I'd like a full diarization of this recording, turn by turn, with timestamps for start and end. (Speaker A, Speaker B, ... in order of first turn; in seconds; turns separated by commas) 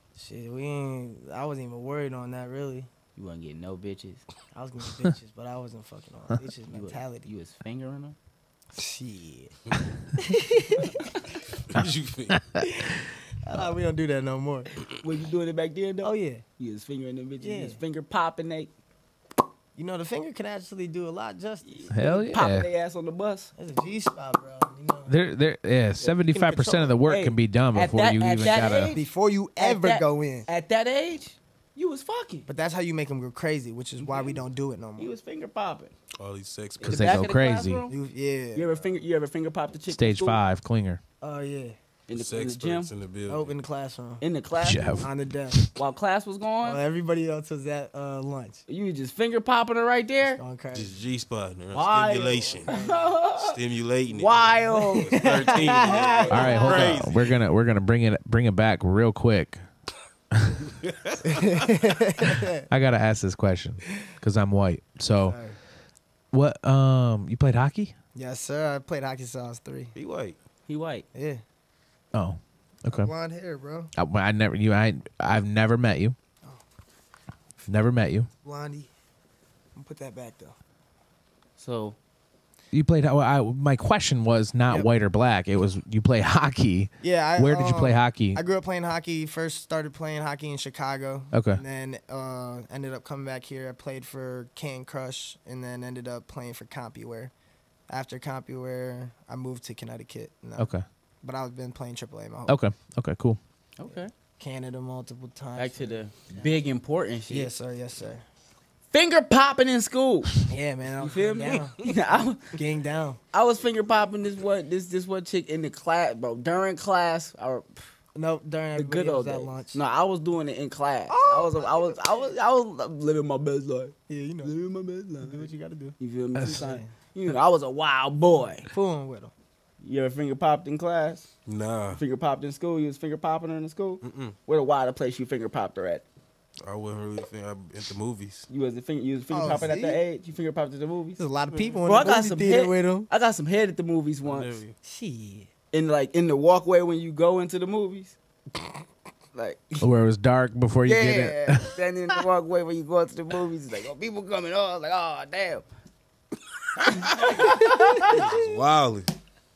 Speaker A: 0.1-2.9, Speaker B: 3.2-4.3, Speaker A: 4.5-7.3, Speaker B: 6.7-8.2, Speaker A: 8.7-9.6, Speaker A: 10.2-11.0, Speaker C: 11.7-12.5, Speaker D: 12.3-12.6, Speaker A: 13.4-14.7, Speaker B: 15.0-18.7, Speaker A: 16.0-16.4, Speaker A: 17.4-17.8, Speaker A: 19.8-21.7, Speaker B: 21.6-23.5, Speaker D: 21.9-22.7, Speaker A: 23.6-25.1, Speaker D: 25.1-28.9, Speaker A: 26.3-27.0, Speaker B: 27.0-32.5, Speaker A: 28.8-30.5, Speaker A: 32.5-35.1, Speaker B: 34.0-34.4, Speaker B: 35.0-36.0, Speaker C: 36.2-37.3, Speaker B: 36.8-38.0, Speaker D: 36.8-37.8, Speaker A: 37.9-38.7, Speaker B: 38.5-40.4, Speaker D: 39.9-41.0, Speaker A: 41.2-41.8, Speaker B: 42.1-42.9, Speaker C: 42.1-43.5, Speaker A: 43.3-44.3, Speaker B: 44.2-45.0, Speaker D: 44.6-45.8, Speaker A: 45.0-45.6, Speaker B: 45.8-46.8, Speaker A: 46.6-48.6, Speaker B: 48.7-50.4, Speaker A: 50.3-51.0, Speaker C: 50.7-52.8, Speaker B: 51.7-53.5, Speaker A: 52.4-53.1, Speaker C: 53.3-57.4, Speaker B: 54.1-57.0, Speaker A: 55.1-56.2, Speaker D: 56.3-59.6, Speaker C: 60.7-61.5, Speaker A: 61.2-62.7, Speaker D: 62.2-65.4, Speaker A: 65.2-65.6, Speaker D: 66.3-68.0, Speaker A: 68.2-69.9, Speaker C: 70.0-70.4, Speaker B: 70.7-71.1, Speaker A: 71.1-71.4, Speaker D: 72.1-73.1, Speaker A: 72.9-73.9, Speaker D: 74.0-76.2, Speaker D: 77.7-78.3, Speaker A: 78.4-78.9, Speaker A: 79.8-80.6, Speaker B: 81.6-82.0, Speaker D: 82.7-88.4, Speaker A: 87.0-97.3, Speaker D: 91.3-91.6, Speaker A: 97.9-102.6, Speaker D: 100.6-100.8, Speaker D: 102.5-103.4, Speaker B: 103.8-104.1, Speaker A: 103.9-106.6, Speaker B: 105.6-107.5, Speaker A: 107.3-108.2, Speaker B: 108.9-110.4, Speaker A: 110.5-111.9, Speaker B: 111.0-112.6, Speaker A: 112.5-113.2, Speaker B: 113.3-117.8, Speaker A: 118.2-119.8, Speaker B: 118.8-128.7, Speaker A: 121.1-122.4, Speaker A: 124.1-124.5, Speaker A: 125.2-126.9, Speaker D: 126.3-126.6, Speaker A: 128.6-129.3, Speaker B: 129.8-131.3, Speaker C: 131.5-132.0, Speaker B: 131.9-136.1, Speaker C: 134.0-134.4, Speaker C: 136.6-138.5, Speaker B: 138.5-141.2, Speaker A: 139.3-140.0, Speaker A: 141.2-143.1, Speaker C: 141.5-141.8, Speaker B: 141.8-144.6, Speaker C: 144.2-144.8, Speaker A: 144.8-145.5, Speaker B: 145.7-148.2, Speaker B: 149.3-149.9, Speaker D: 149.8-151.8, Speaker B: 150.8-155.7, Speaker B: 156.8-158.3, Speaker C: 157.2-157.4, Speaker A: 157.5-158.5, Speaker C: 158.0-159.1